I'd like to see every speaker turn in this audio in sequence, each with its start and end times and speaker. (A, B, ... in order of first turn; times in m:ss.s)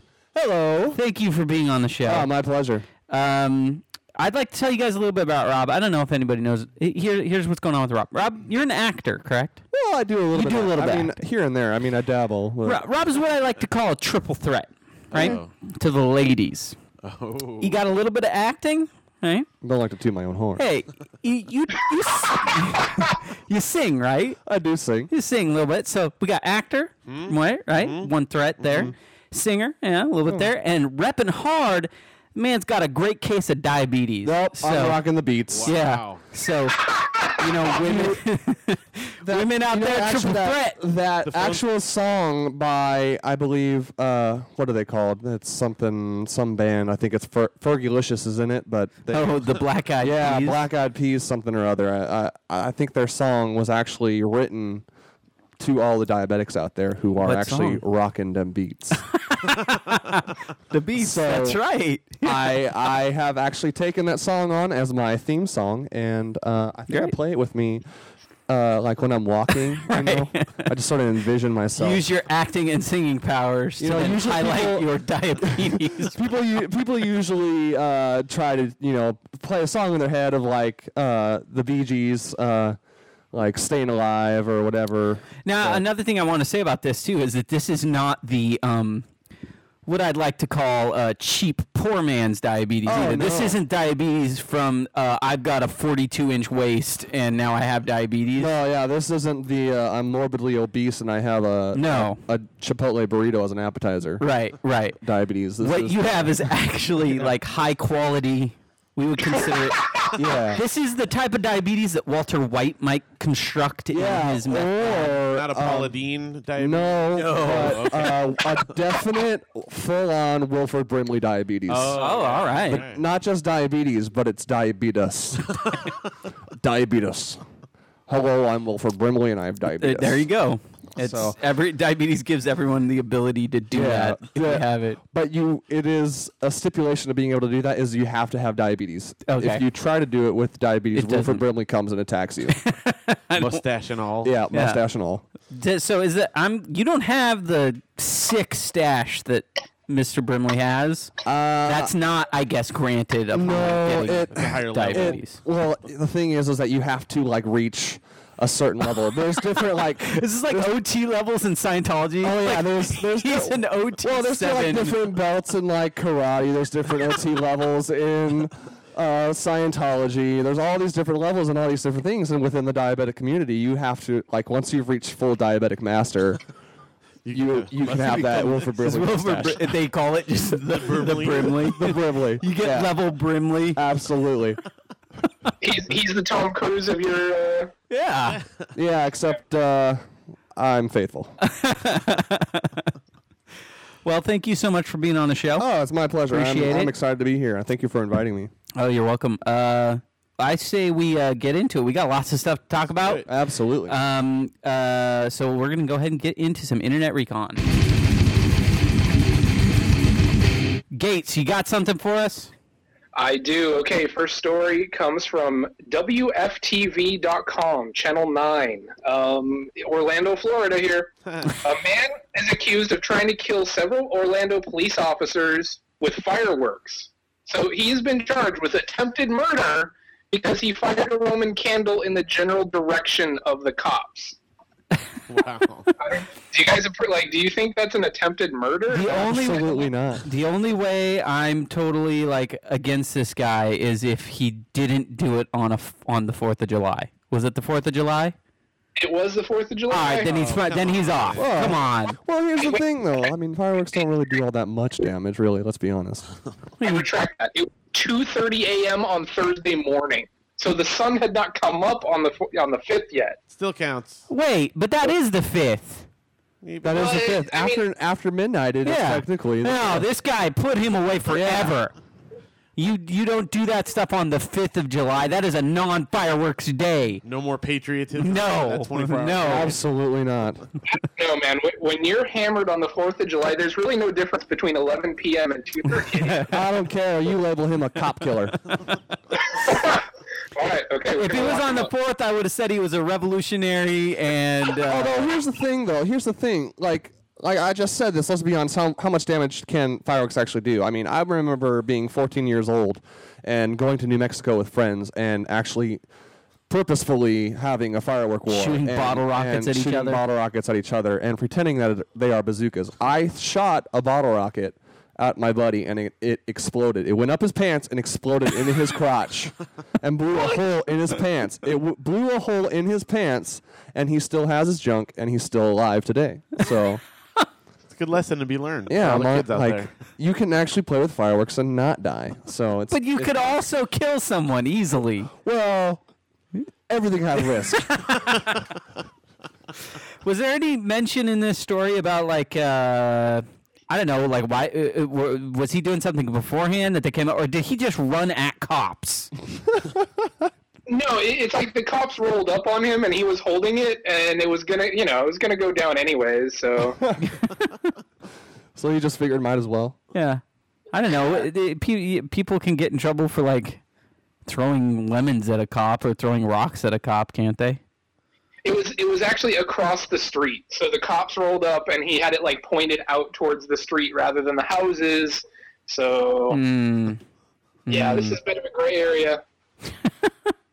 0:00.3-0:01.0 A
0:01.0-0:02.3 B
0:02.0-0:02.9 A
0:03.1-0:09.6 B
0:09.7-0:12.8 A
0:10.3-0:11.2 B
0:12.6-0:16.8 B
0:15.1-0:15.5 C
0:17.0-0:17.8 C
0:17.6-0:19.5 B
0:19.6-0:20.6 A
0:20.6-0:24.4 B
0:24.5-0:25.1 A
0:25.1-0:35.0 B
0:27.1-0:28.1 C
0:34.2-0:35.8 A
0:35.5-0:36.2 C
0:35.7-0:40.8 B
0:36.8-0:37.3 D
0:37.4-0:38.2 A
0:39.2-0:49.4 A
0:41.3-0:41.6 C
0:49.1-0:50.6 B
0:50.0-0:54.9 A
0:55.6-0:59.1 A
0:57.2-0:57.8 B
0:59.2-1:02.4 B
1:01.0-1:01.6 A
1:02.2-1:07.8 A
1:06.9-1:07.2 B
1:08.5-1:12.0 A
1:09.8-1:10.7 B
1:11.8-1:16.2 B
1:13.8-1:14.9 A
1:15.4-1:22.8 A
1:23.3-1:25.8 A
1:25.4-1:29.1 B
1:29.9-1:38.5 B
1:32.8-1:33.6 A
1:38.4-1:44.2 A
1:41.7-1:42.2 B
1:44.2-1:45.0 B
1:45.0-1:46.3 A
1:45.6-1:55.2 B
1:50.1-1:50.6 A
1:53.9-1:56.0 A
1:55.1-1:58.6 C
1:56.6-2:02.0 A
1:57.1-1:58.2 B
2:01.7-2:03.0 C
2:01.9-2:02.8 B
2:02.7-2:05.6 A
2:06.6-2:07.4 A
2:08.1-2:10.3 A
2:09.8-2:15.0 B
2:11.0-2:11.4 A
2:13.7-2:22.6 A
2:19.3-2:19.6 B
2:20.9-2:21.4 B
2:22.5-2:23.6 B
2:23.4-2:24.4 C
2:24.2-2:25.2 A
2:24.5-2:24.8 B
2:25.5-2:31.1 B
2:31.2-2:31.9 A
2:31.6-2:35.4 B
2:33.3-2:40.7 A
2:34.1-2:35.2 C
2:40.1-2:45.0 B
2:42.2-2:56.4 A
2:57.2-2:58.7 C
2:57.3-2:59.7 A
2:58.7-3:03.8 B
3:00.7-3:01.7 C
3:01.6-3:02.9 A
3:03.8-3:04.6 A
3:05.6-3:07.7 D
3:07.9-3:08.4 B
3:08.8-3:10.0 A
3:10.6-3:11.4 A
3:11.4-3:12.9 B
3:14.0-3:15.7 B
3:15.6-3:18.5 A
3:16.3-3:16.9 B
3:18.8-3:23.2 B
3:23.0-3:23.3 C
3:23.3-3:24.0 A
3:23.9-3:27.6 B
3:30.9-3:32.5 B
3:33.2-3:54.4 D
3:55.3-3:55.9 C
3:56.0-3:59.8 D
3:58.9-4:08.4 B
3:59.1-4:00.3 A
4:09.0-4:10.3 D
4:09.9-4:12.2 B
4:10.2-4:11.8 C
4:11.4-4:16.3 A
4:16.8-4:17.1 B
4:16.8-4:23.4 D
4:23.5-4:24.2 C
4:24.3-4:26.1 B
4:26.6-4:27.2 C
4:26.8-4:30.1 A
4:26.9-4:27.8 D
4:28.8-4:31.9 B
4:31.3-4:31.8 A
4:32.8-4:37.2 B
4:37.2-4:39.8 C
4:38.2-4:39.7 B
4:39.4-4:40.6 A
4:41.0-4:46.5 D
4:46.5-4:48.6 A
4:49.5-4:51.9 D
4:51.1-4:55.2 B
4:54.8-5:06.0 A
5:06.7-5:27.0 A
5:08.5-5:10.2 B
5:27.9-5:29.9 C
5:28.9-5:33.6 A
5:32.9-5:35.3 B
5:35.4-5:36.0 A
5:36.9-5:37.9 A
5:37.9-5:38.6 B
5:40.2-5:49.3 B
5:50.9-5:57.0 D
5:58.8-6:00.0 A
6:00.1-6:03.8 B
6:01.0-6:01.5 D
6:04.5-6:07.8 B
6:08.6-6:16.6 D
6:16.5-6:17.2 B
6:17.9-6:18.4 B
6:17.9-6:19.4 D